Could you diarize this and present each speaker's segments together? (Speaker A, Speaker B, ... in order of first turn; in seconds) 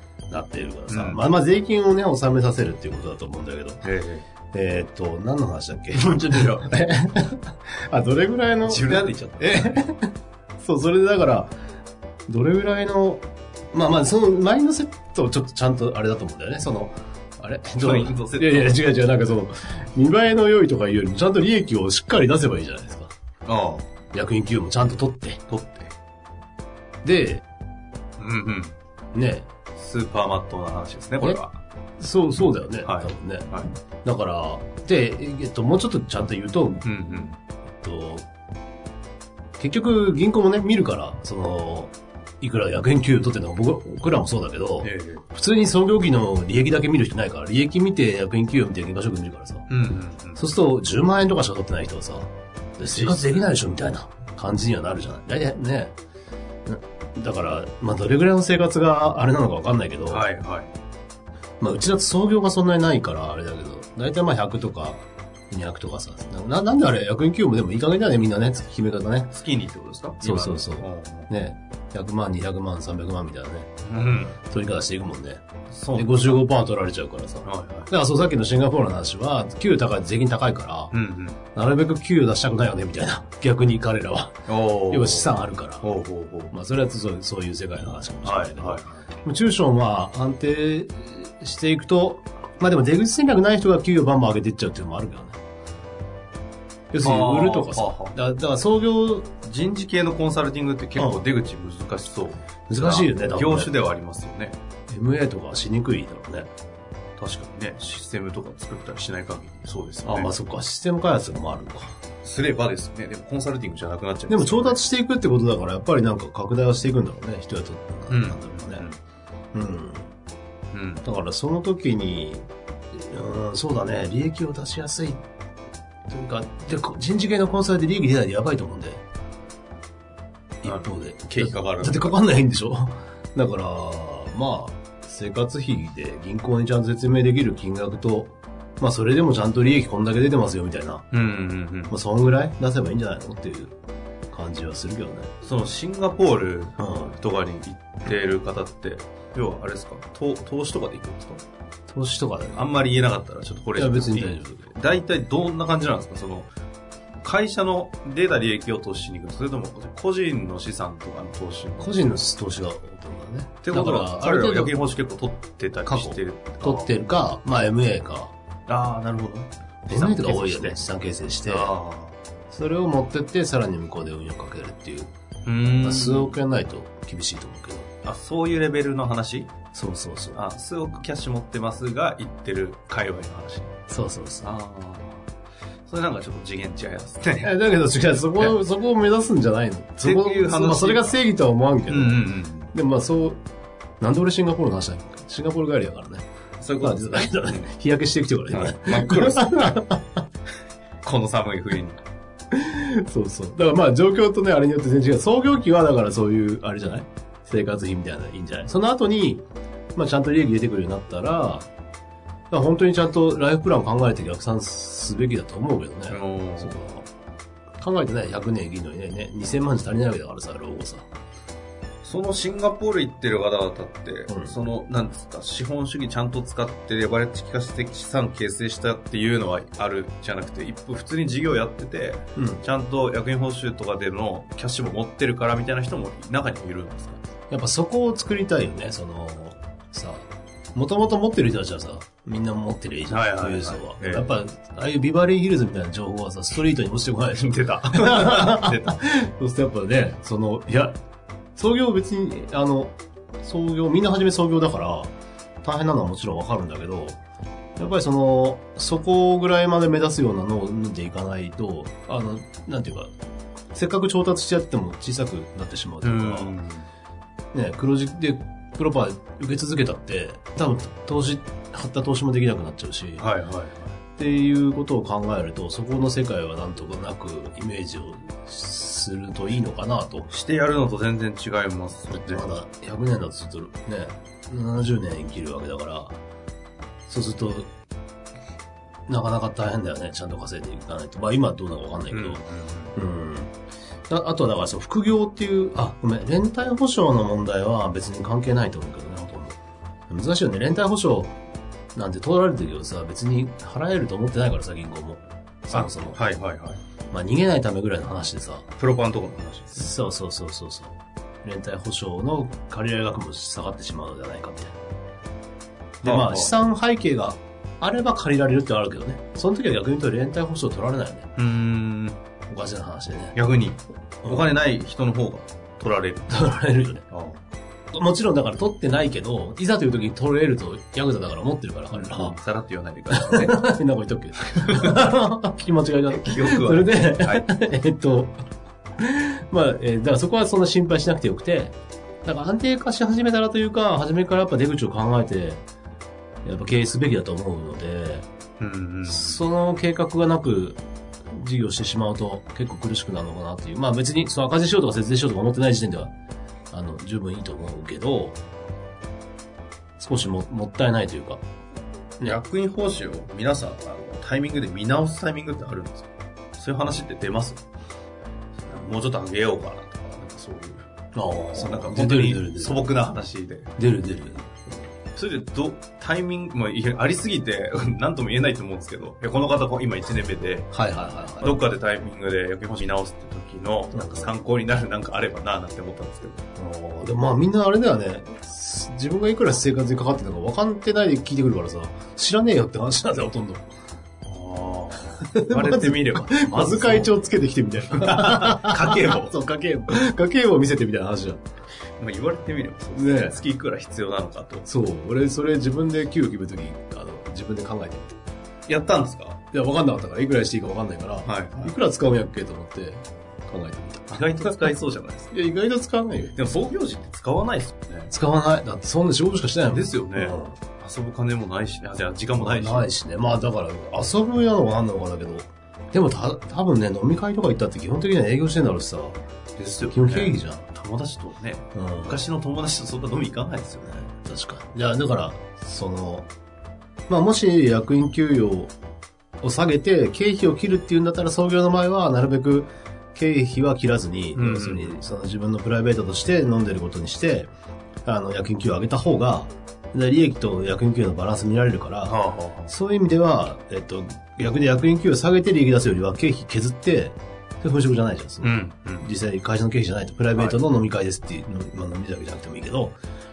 Speaker A: 0.3-3.8, 4.5-11.5, 12.3-23.1, 24.1-25.4, 27.0-27.4, 29.1-29.5, 32.0-33.5, 34.0-36.9, 37.8-38.2, 39.6-49.7, 50.4-56.0, 56.7-60.2, 61.6-69.3, 70.2-73.7, 74.4-75.4, 75.9-80.9, 81.5-85.9, 86.5-95.4, 96.9-99.3, 101.0-101.2, 102.7-103.7, 104.9-106.5, 110.0-111.9, 114.3-118.8, 119.5-120.1, 121.0-125.2, 126.1-129.0, 130.6-141.1, 141.9-143.7, 144.3-145.3, 146.8-147.1, 151.9-152.7, 153.7-154.7, 161.8-164.8, 165.8-168.3, 169.9-171.7, 172.5-175.1, 175.8-177.9, 179.7-180.4, 183.9-184.5, 187.4-193.4, 194.0-196.2, 196.8-200.2, 202.5-211.7, 212.5-217.1, 217.8-221.1, 224.3-224.6, 232.3-232.6, 237.5-251.0, 251.6-255.1, 255.6-257.2, 257.8-263.1, 263.7-266.5, 267.5-273.2, 274.2-280.3, 282.1-286.1, 287.1-287.7, 289.1-292.4, 292.9-293.5, 294.1-299.6, 300.1-301.3, 301.9-306.2, 307.1-308.7, 309.7-314.8, 316.0-321.3, 322.5-323.4, 324.2-324.6, 326.3-327.1, 327.9-332.4, 333.1-338.4, 339.0-345.6, 346.4-348.3, 349.0-350.8, 351.3-356.1, 356.7-358.4, 360.0-361.4, 371.1-372.9, 373.8-374.5, 380.7-381.6, 383.9-384.3, 386.6-393.6, 395.2-401.4, 402.9-403.4, 404.6-408.2, 409.5-414.7, 415.3-416.4, 418.1-420.6, 422.4-429.2, 429.9-430.7, 431.7-432.2, 434.2-436.3, 437.1-438.7, 439.4-447.5, 448.0-462.9
Speaker B: 0.9-1.2, 3.8-4.2, 6.0-6.7, 8.7-9.8, 17.8-18.8, 23.4-23.9, 25.5-25.9, 28.2-28.8, 29.7-31.6, 32.8-33.7, 36.8-37.4, 44.8-45.2, 49.7-50.4, 52.9-53.4, 60.1-60.7, 69.3-71.3, 73.9-74.4, 75.7-76.4, 77.4-77.9, 80.9-81.4, 84.5-85.3, 85.8-86.5, 88.2-89.0, 97.0-98.1, 99.4-104.6, 107.2-110.3, 112.2-114.8, 118.1-119.0, 120.7-121.0, 130.6-132.2, 141.1-141.9, 145.4-151.4, 152.5-156.5, 157.2-162.0, 163.6-166.9, 168.7-170.8, 171.4-172.2, 175.4-176.4, 178.0-179.6, 180.3-183.7, 184.4-185.3, 185.9-187.5, 190.0-191.2, 191.9-192.7, 196.6-197.7, 198.5-199.8, 201.0-202.0, 216.1-216.8, 222.0-237.2, 243.1-244.3, 247.3-248.9, 266.0-266.9, 273.2-274.0, 280.3-282.5, 292.1-292.9, 305.7-306.8, 308.8-309.9, 316.0-316.5, 321.4-322.2, 323.4-326.4, 327.1-327.4, 331.9-333.6, 334.6-335.1, 336.1-337.5, 348.6-349.4, 362.2-367.6, 368.6-373.7, 375.1-380.7, 381.4-386.5, 394.2-397.3, 397.9-399.3, 402.0-404.7, 408.7-409.4, 411.2-411.7, 414.1-415.3, 416.3-418.1, 419.7-422.9, 429.6-434.1, 444.3-445.0, 452.1-452.7, 458.4-459.1, 460.3-460.6